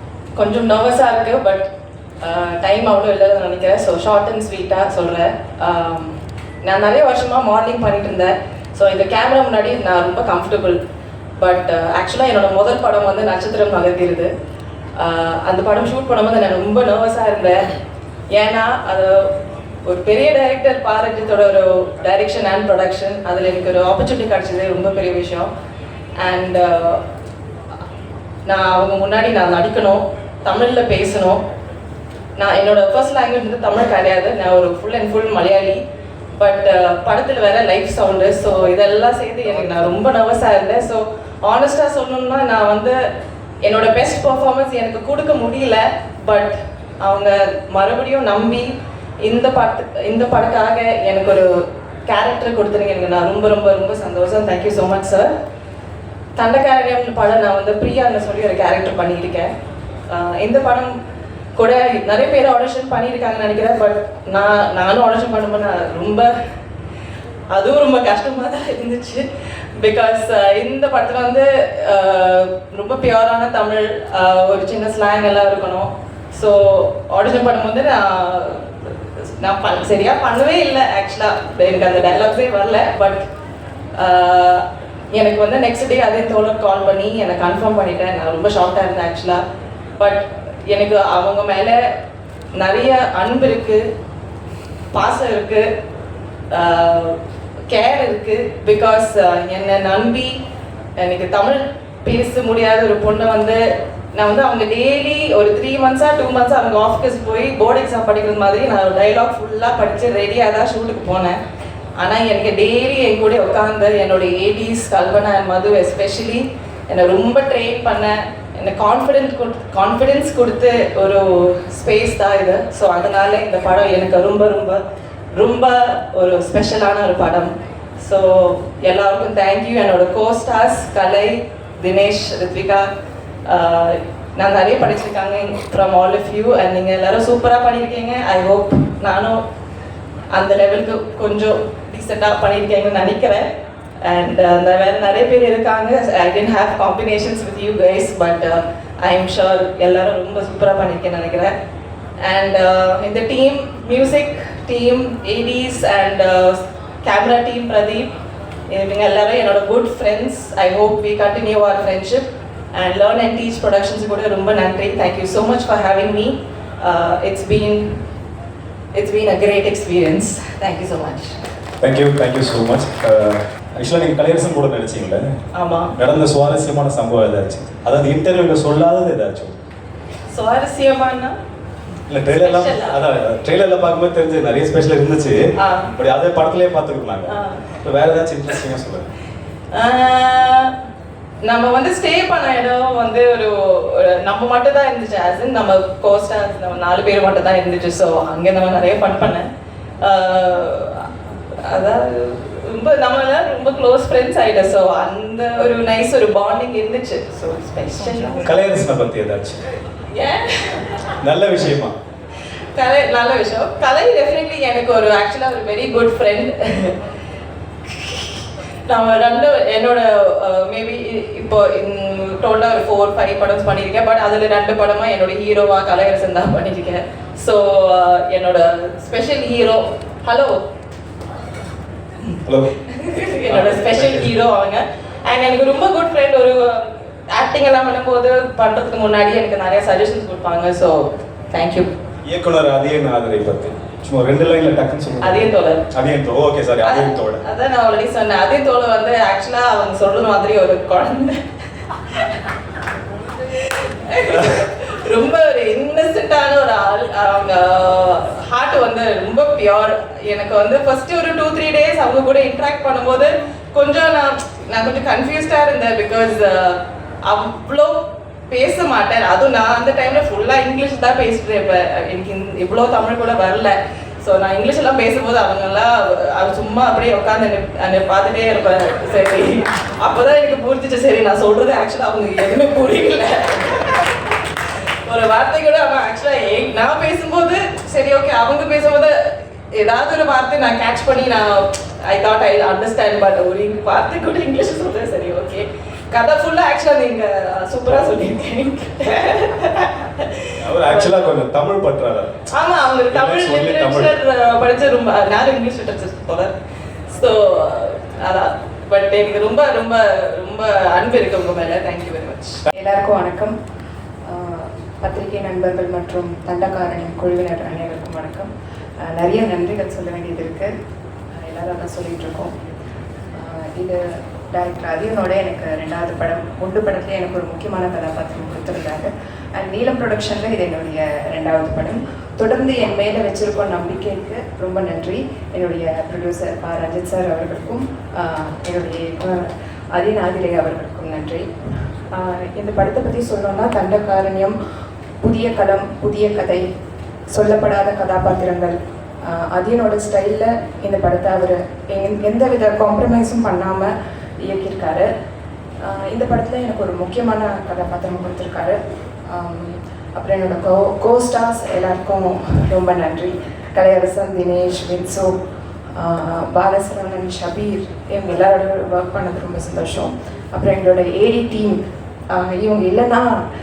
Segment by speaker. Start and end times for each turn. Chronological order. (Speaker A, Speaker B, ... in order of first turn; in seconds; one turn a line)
Speaker A: 0.4-1.7
Speaker A: 2.2-10.8
Speaker A: 11.4-14.3
Speaker A: 15.0-17.7
Speaker A: 18.3-19.3
Speaker A: 19.9-25.5
Speaker A: 26.2-27.0
Speaker A: 28.5-31.4
Speaker A: 32.4-35.8
Speaker A: 36.4-43.0
Speaker A: 43.6-48.7
Speaker A: 49.2-51.5
Speaker A: 52.1-55.3
Speaker A: 56.4-59.5
Speaker A: 60.1-60.9
Speaker A: 61.6-66.3
Speaker A: 67.5-69.3
Speaker A: 69.8-83.2
Speaker A: 84.0-89.4
Speaker A: 90.0-91.8
Speaker A: 92.6-93.8
Speaker A: 94.9-95.7
Speaker A: 96.5-97.2
Speaker A: 97.7-100.4
Speaker A: 101.0-103.6
Speaker A: 104.1-111.4
Speaker A: 112.0-124.8
Speaker A: 125.3-132.9
Speaker A: 133.5-139.4
Speaker A: 140.3-143.5
Speaker A: 144.0-151.5
Speaker A: 152.2-158.1
Speaker A: 158.7-168.0
Speaker A: 168.9-171.4
Speaker B: 171.8-175.3
Speaker A: 175.5-175.9
Speaker B: 176.0-179.5
Speaker A: 180.3-181.3
Speaker B: 182.1-185.4
Speaker A: 182.3-183.0
Speaker A: 185.6-185.9
Speaker B: 185.9-189.1
Speaker A: 187.2-187.6
Speaker A: 189.7-190.7
Speaker A: 191.4-199.5
Speaker A: 200.0-201.1
Speaker A: 201.7-208.5
Speaker B: 208.4-209.6
Speaker A: 210.1-211.0
Speaker B: 211.2-211.9
Speaker A: 212.8-216.9
Speaker A: 217.9-230.5
Speaker B: 232.4-232.7
Speaker A: 232.9-241.9
Speaker B: 233.5-234.3
Speaker B: 242.3-247.4
Speaker A: 245.2-245.9
Speaker A: 246.8-251.4
Speaker A: 253.6-283.9
Speaker A: 285.1-289.1
Speaker A: 289.7-301.4
Speaker B: 300.6-302.4
Speaker A: 302.5-306.5
Speaker B: 303.1-304.1
Speaker A: 307.1-312.6
Speaker C: 312.8-313.5
Speaker C: 314.3-318.5
Speaker C: 319.0-320.7
Speaker C: 321.4-322.5
Speaker C: 323.4-324.0
Speaker C: 324.5-341.5
Speaker C: 342.1-344.6
Speaker C: 345.2-346.6
Speaker C: 347.3-348.8
Speaker C: 349.3-353.9
Speaker C: 354.4-355.1
Speaker C: 355.8-358.8
Speaker C: 359.3-365.3
Speaker C: 366.0-371.8
Speaker C: 372.3-373.4